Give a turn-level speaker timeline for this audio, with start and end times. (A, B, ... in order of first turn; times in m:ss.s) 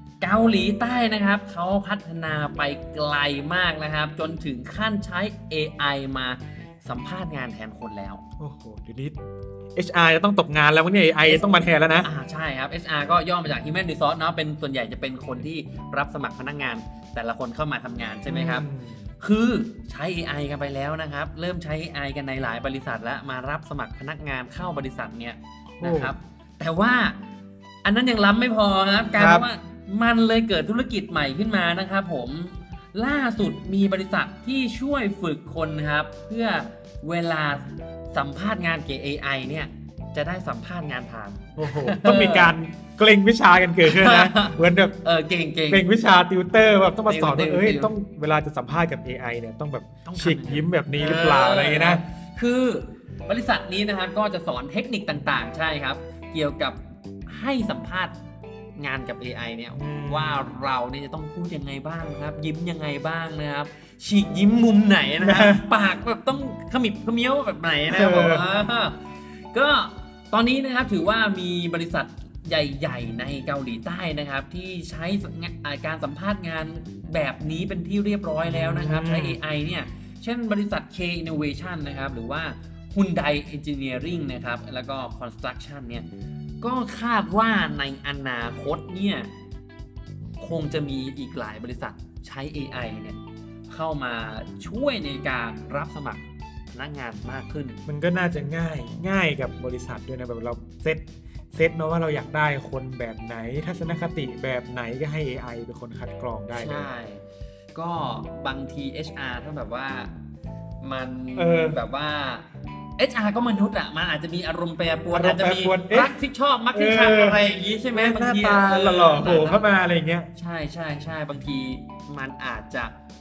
0:00.2-0:08.2 A
0:08.4-0:09.2 B
0:09.8-0:12.1 B
0:11.2-0:18.7 A
0:18.3-0:19.1 B
0:19.2-0:27.2 A
0:25.8-0:26.1 B
0:27.8-0:42.5 A
0:29.2-0:29.5 B
0:41.6-0:45.0 B
0:43.8-0:45.8 A
0:45.7-0:52.0 B
0:47.1-0:47.9 A
0:50.0-0:58.2 A
0:58.8-1:09.0 A
0:59.8-1:00.5 B
1:05.2-1:05.6 B
1:07.9-1:08.5 B
1:09.5-1:26.1 A
1:18.4-1:19.4 B
1:26.6-1:29.3 A
1:30.4-1:33.2 A
1:33.7-1:36.2 A
1:36.8-1:37.8 A
1:37.9-1:46.9 B
1:46.5-1:50.1 A
1:50.8-1:52.5 A
1:51.4-1:51.8 B
1:53.0-1:59.6 A
1:55.1-1:56.2 B
1:56.7-2:00.3 B
2:00.3-2:02.9 A